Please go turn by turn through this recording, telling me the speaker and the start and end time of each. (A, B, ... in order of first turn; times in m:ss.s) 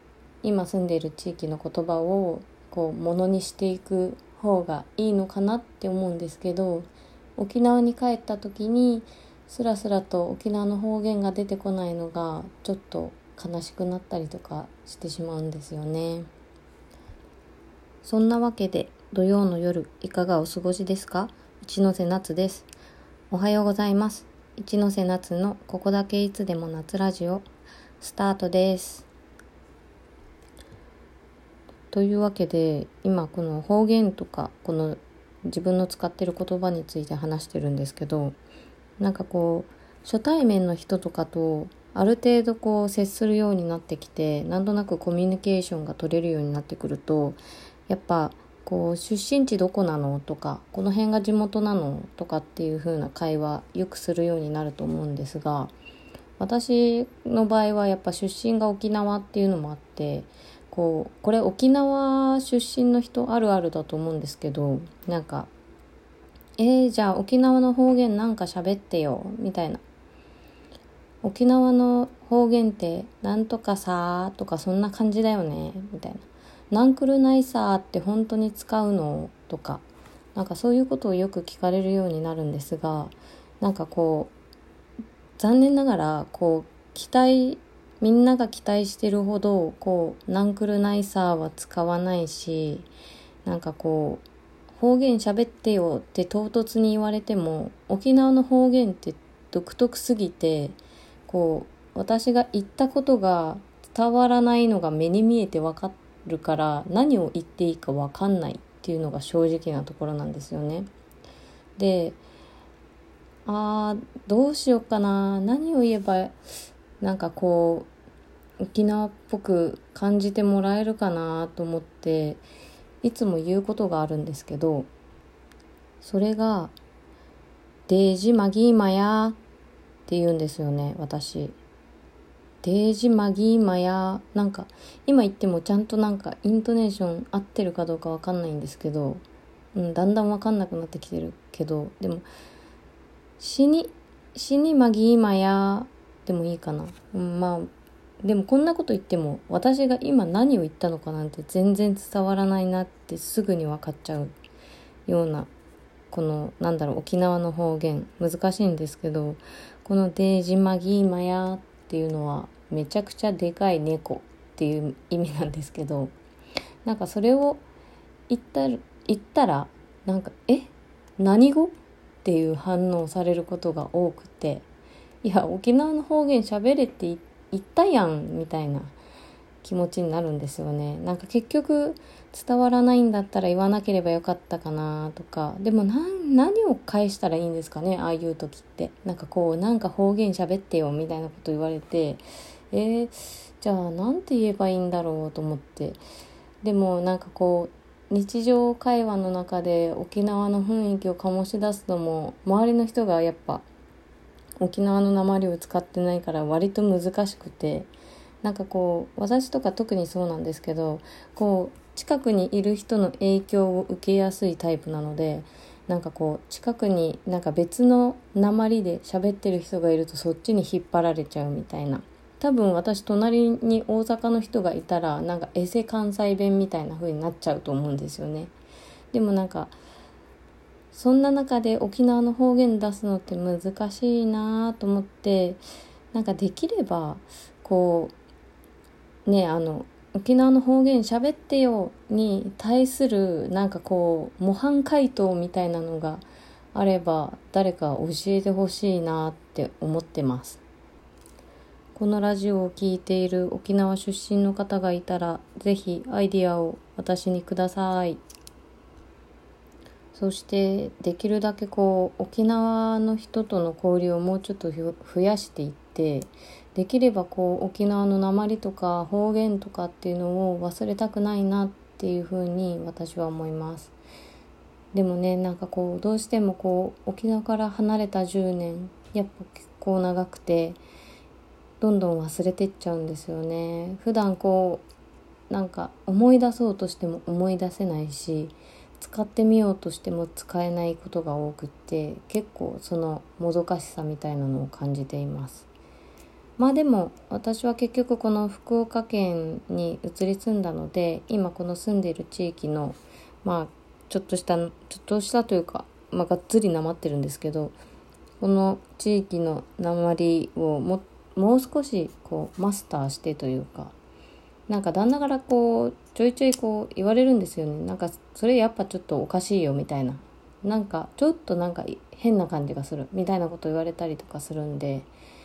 0:00.4-0:16.3 A
0:18.0-0:22.7 A
0:23.3-0:27.5 A
0:28.0-0:29.1 A
0:31.9-0:38.4 A
0:39.0-0:55.7 A
0:56.4-1:05.5 A
1:06.6-1:09.8 A
1:11.2-1:19.8 A
1:20.4-1:24.3 A
1:25.4-1:32.9 A
1:33.4-1:50.9 A
1:51.8-1:52.2 A
1:53.5-1:56.4 A
1:57.0-1:57.9 A
1:58.6-2:02.4 A
2:03.0-2:04.9 A
2:06.0-2:06.8 A
2:07.9-2:09.4 A
2:10.1-2:11.6 A
2:12.6-2:22.2 A
2:23.4-2:27.7 A
2:28.2-2:34.4 A
2:35.1-2:35.5 A
2:36.1-2:46.1 A
2:46.8-2:47.6 A
2:48.3-2:54.6 A
2:55.2-2:59.0 A
2:59.6-3:16.0 A
3:16.6-3:23.7 A
3:24.6-3:27.9 A
3:28.4-3:48.5 A
3:49.1-3:49.8 A
3:50.9-3:55.6 A
3:56.1-3:58.1 A
3:59.3-4:10.6 A
4:12.0-4:18.2 A
4:20.1-4:33.9 A
4:34.9-4:40.8 A
4:41.8-4:44.8 A
4:45.5-4:55.7 A
4:56.6-5:07.8 A
5:08.4-5:14.0 A
5:14.7-5:25.1 A